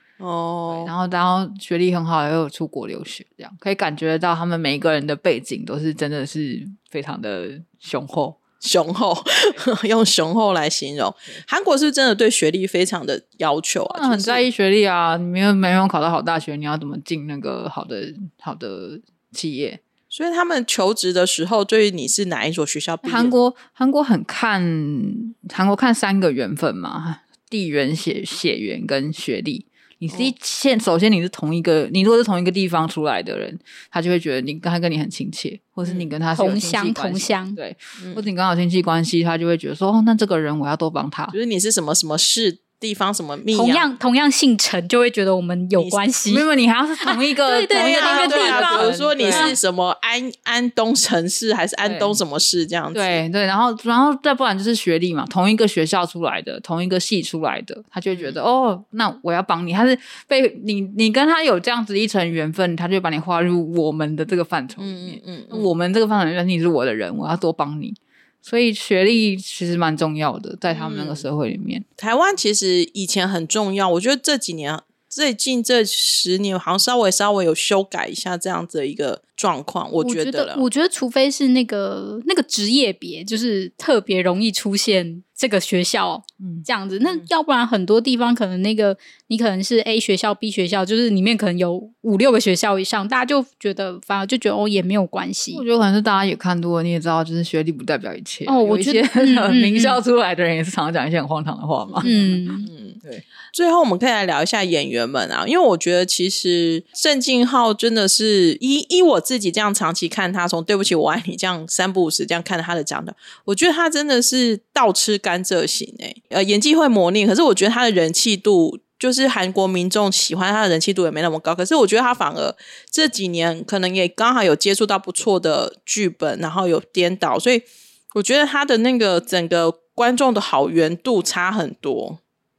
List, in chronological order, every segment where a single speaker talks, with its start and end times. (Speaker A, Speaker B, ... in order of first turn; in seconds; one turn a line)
Speaker A: 0.2-0.9
Speaker B: 0.7-8.4
Speaker A: 8.6-14.4
Speaker B: 13.9-19.8
Speaker A: 20.1-23.3
Speaker B: 23.0-41.3
Speaker C: 36.3-37.6
Speaker A: 38.0-38.2
Speaker A: 41.3-43.9
Speaker C: 43.5-46.5
Speaker B: 46.3-49.6
Speaker C: 47.0-49.5
Speaker A: 47.7-53.2
Speaker B: 51.8-52.2
Speaker B: 52.9-71.8
Speaker A: 58.1-58.4
Speaker A: 64.8-65.7
Speaker A: 70.7-71.2
Speaker A: 72.0-80.6
Speaker C: 80.0-95.6
Speaker B: 86.4-86.7
Speaker B: 95.5-103.2
Speaker C: 98.5-100.0
Speaker A: 101.9-103.0
Speaker C: 102.0-102.7
Speaker A: 103.5-132.2